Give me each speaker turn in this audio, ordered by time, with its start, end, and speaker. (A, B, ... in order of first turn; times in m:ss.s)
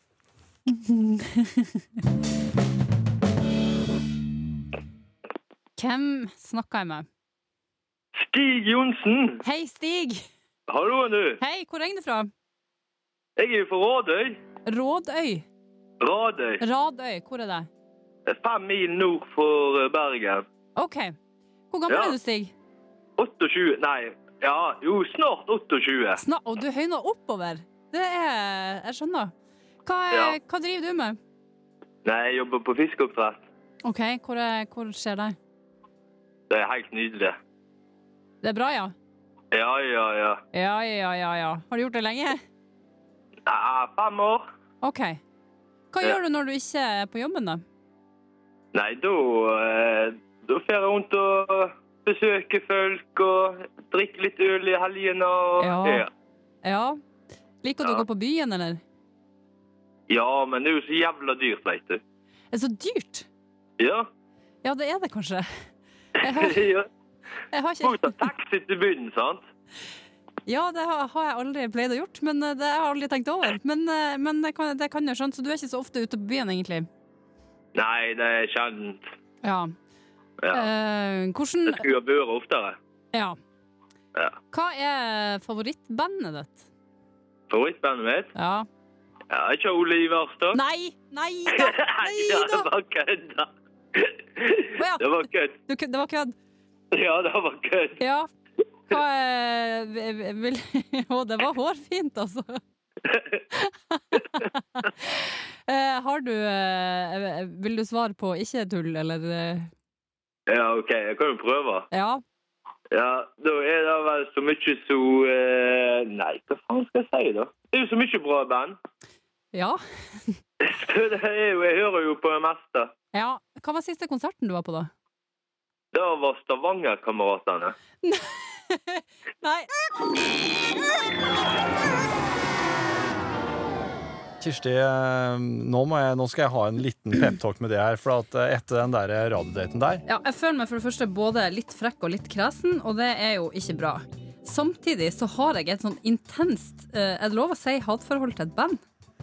0:00.7-0:01.8 A
0:05.8-0:07.1 A
0:08.2-0:09.4 B
0:09.4-0:10.2 A
0:10.7-0:11.4 B
0:11.4-0:12.3 A
0:13.4-0:14.4 B
0:14.7-0:15.4 A
0:16.0-0:16.6 B
0:16.6-0:17.7 A
0:18.3-0:20.4 B
0:20.8-0:21.2 A
0:21.7-0:22.5 A
0:21.9-0:22.2 B
0:23.2-0:26.2 B
0:26.2-0:29.3 A
0:29.8-0:31.2 A
0:32.0-0:33.4 B
0:33.8-0:35.4 A
0:36.5-0:37.4 B
0:38.4-0:38.9 A
0:39.5-0:40.4 B
0:40.5-0:42.4 A
0:43.5-0:44.4 B
0:44.8-0:45.2 A
0:45.9-0:47.6 A
0:48.7-0:56.1 B
0:55.6-0:56.1 A
0:56.6-0:57.0 A
0:57.6-0:58.8 A
1:00.1-1:02.0 B
1:02.5-1:03.3 A
1:03.8-1:04.1 B
1:04.6-1:05.5 A
1:06.2-1:06.7 A
1:06.3-1:06.9 B
1:07.5-1:08.3 A
1:07.8-1:09.4 B
1:10.5-1:16.9 A
1:17.8-1:19.0 B
1:19.4-1:19.7 A
1:20.4-1:20.7 B
1:20.5-1:21.8 A
1:21.7-1:22.8 B
1:23.1-1:23.4 A
1:24.5-1:26.7 A
1:27.5-1:28.3 B
1:28.4-1:28.7 A
1:29.3-1:30.6 B
1:30.5-1:32.7 A
1:31.6-1:35.6 B
1:34.8-1:36.4 A
1:36.9-1:38.0 B
1:38.0-1:38.3 A
1:38.9-1:42.6 A
1:43.1-1:43.4 B
1:43.5-1:49.7 A
1:50.5-1:51.9 B
1:51.9-1:52.2 A
1:52.9-1:58.8 B
1:59.5-2:00.4 A
2:00.6-2:02.9 B
2:03.1-2:04.9 A
2:05.9-2:07.8 B
2:08.0-2:09.7 A
2:14.4-2:20.0 C
2:20.1-2:28.8 A